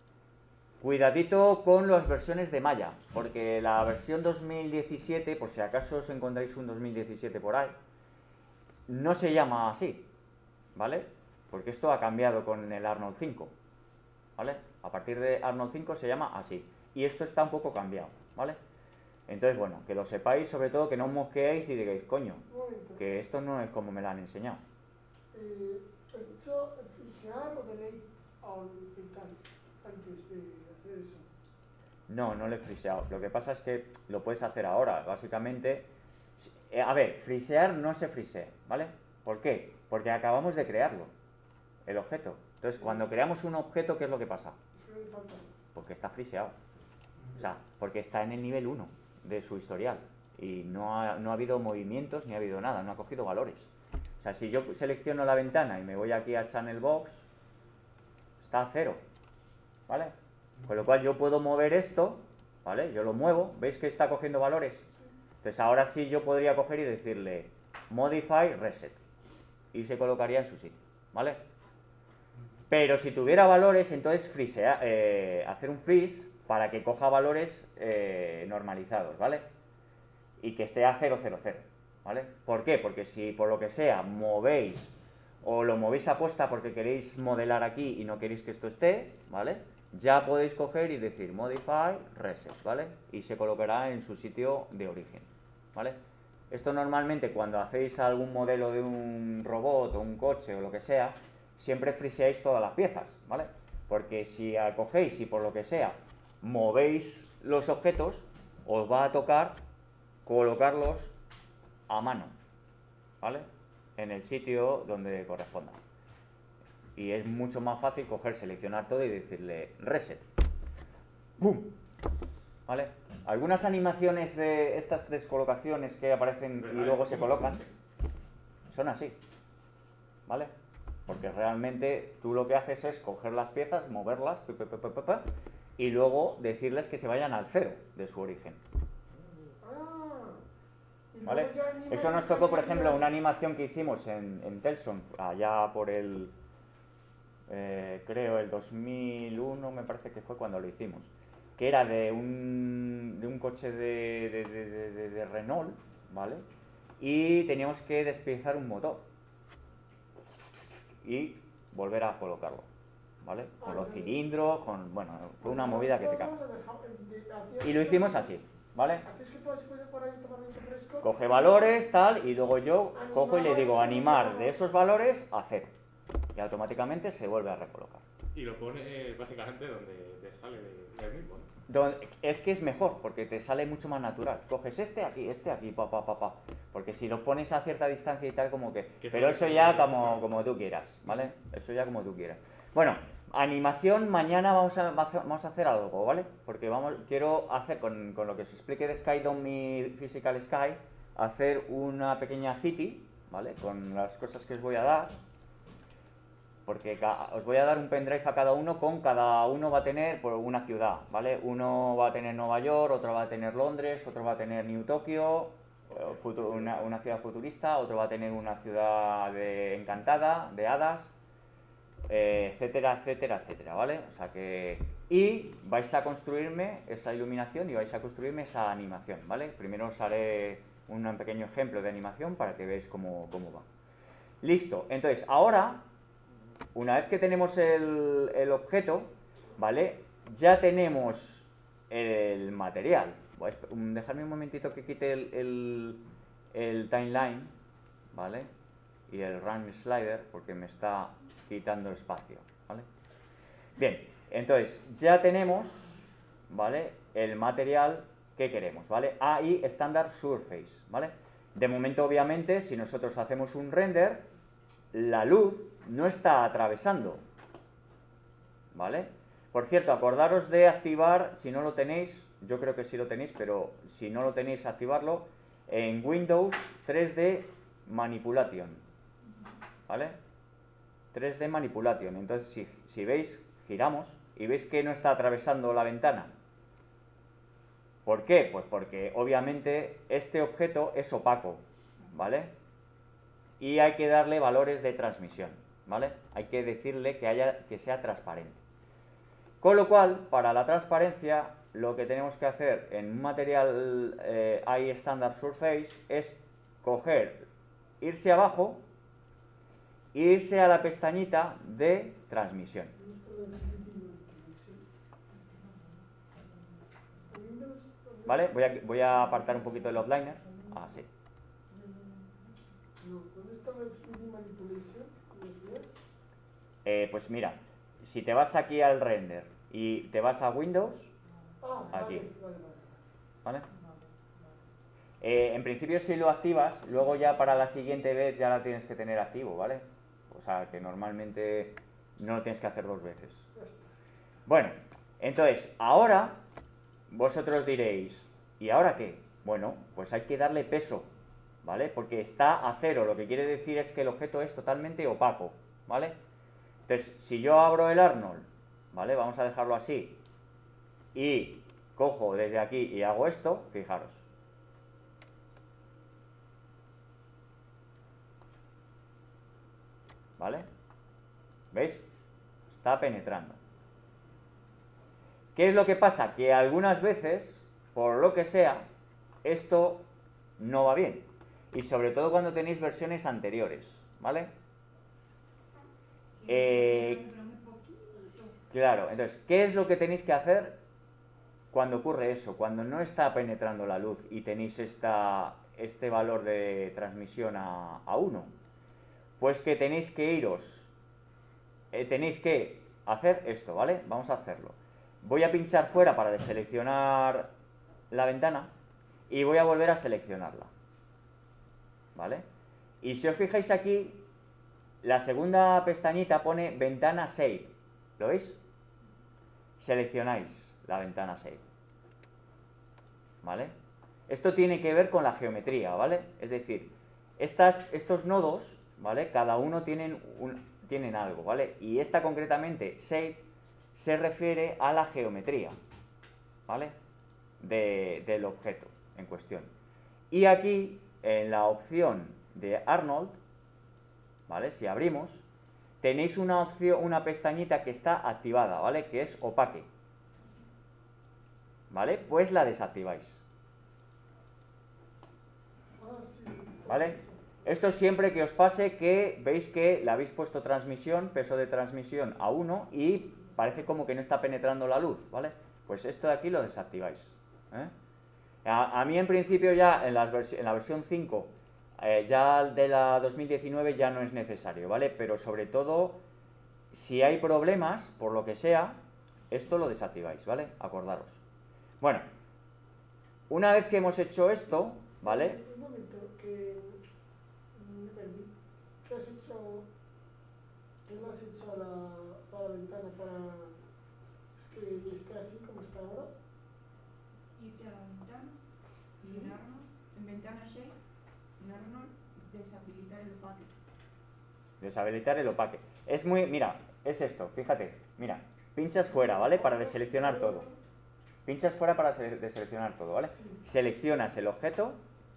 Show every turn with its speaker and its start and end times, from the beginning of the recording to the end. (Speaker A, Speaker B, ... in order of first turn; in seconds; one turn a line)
Speaker A: 0.8-7.8
Speaker A: 8.9-10.1
Speaker A: 10.7-13.5
Speaker A: 14.4-18.6
Speaker A: 19.3-22.4
Speaker B: 22.5-23.0
Speaker A: 23.0-24.6
Speaker B: 25.3-31.3
Speaker A: 32.1-41.1
Speaker A: 41.9-44.6
Speaker B: 42.8-43.1
Speaker B: 44.8-45.5
Speaker A: 45.7-46.5
Speaker A: 47.3-53.7
Speaker A: 54.2-57.2
Speaker A: 58.4-59.0
Speaker A: 59.9-60.1
Speaker A: 60.6-64.8
Speaker A: 65.4-69.0
Speaker A: 69.7-71.4
Speaker A: 72.7-79.5
Speaker A: 80.4-96.0
Speaker A: 96.5-109.6
Speaker A: 110.2-111.1
Speaker A: 111.9-112.3
Speaker A: 113.2-115.8
Speaker A: 117.0-120.2
Speaker A: 121.4-121.7
Speaker A: 122.7-127.6
Speaker C: 126.6-127.7
Speaker A: 128.7-129.2
Speaker A: 130.3-130.5
Speaker A: 131.1-135.2
Speaker A: 135.8-138.6
Speaker B: 139.6-140.4
Speaker B: 141.1-143.2
Speaker A: 141.2-146.3
Speaker A: 147.5-156.4
Speaker A: 157.0-159.1
Speaker A: 161.0-162.7
Speaker A: 163.2-166.4
Speaker B: 163.6-164.2
Speaker B: 165.4-168.3
Speaker A: 167.6-169.0
Speaker B: 169.0-171.8
Speaker A: 171.0-175.7
Speaker B: 172.9-174.6
Speaker A: 176.3-178.0
Speaker C: 178.3-181.5
Speaker A: 181.7-205.2
Speaker C: 189.0-190.2
Speaker A: 206.7-221.1
Speaker A: 222.1-233.7
Speaker A: 234.4-235.8
Speaker A: 236.7-246.0
Speaker A: 246.5-247.5
Speaker A: 248.1-248.5
Speaker A: 249.1-252.8
Speaker A: 253.8-256.0
Speaker A: 256.5-264.2
Speaker A: 264.9-267.2
Speaker A: 268.7-278.8
Speaker A: 279.9-280.2
Speaker A: 281.1-286.3
Speaker A: 288.0-292.5
Speaker A: 293.6-298.6
Speaker A: 299.6-307.5
Speaker A: 308.0-308.8
Speaker A: 310.1-312.9
Speaker B: 312.9-314.8
Speaker B: 317.3-319.5
Speaker A: 318.3-321.1
Speaker B: 320.4-320.8
Speaker B: 321.7-322.4
Speaker B: 323.0-326.0
Speaker A: 326.8-331.1
Speaker B: 331.6-333.0
Speaker A: 331.9-332.3
Speaker A: 335.2-343.5
Speaker B: 343.5-343.9
Speaker A: 344.5-346.4
Speaker A: 347.1-351.1
Speaker A: 351.6-356.1
Speaker A: 356.9-360.2
Speaker A: 361.1-364.2
Speaker A: 370.4-370.6
Speaker A: 371.7-372.1
Speaker A: 372.7-373.6
Speaker A: 375.5-378.9
Speaker A: 379.4-384.5
Speaker D: 386.4-388.5
Speaker A: 386.5-387.2
Speaker A: 388.7-390.8
Speaker A: 391.7-398.5
Speaker A: 399.4-400.9
Speaker A: 401.9-407.5
Speaker A: 408.1-408.7
Speaker A: 409.3-410.7
Speaker A: 412.1-412.4
Speaker A: 413.0-414.2
Speaker A: 415.0-418.6
Speaker A: 419.8-421.6
Speaker A: 423.4-423.7
Speaker A: 424.3-435.8
Speaker A: 436.7-436.9
Speaker A: 437.6-439.7
Speaker A: 440.3-443.4
Speaker A: 444.5-445.4
Speaker A: 446.0-449.9
Speaker A: 451.9-453.4
Speaker B: 455.9-457.6
Speaker A: 456.9-467.9
Speaker A: 468.6-476.2
Speaker A: 476.9-479.0
Speaker A: 479.5-481.4
Speaker A: 482.0-482.3
Speaker A: 483.5-485.6
Speaker B: 485.2-487.0
Speaker B: 487.7-488.5
Speaker B: 489.0-489.9
Speaker B: 491.0-493.8
Speaker B: 494.6-496.3
Speaker D: 497.5-498.6
Speaker D: 499.2-500.9
Speaker B: 499.2-499.5
Speaker D: 501.6-503.7
Speaker A: 504.8-510.7
Speaker B: 509.0-510.7
Speaker A: 511.4-515.0
Speaker B: 513.3-513.6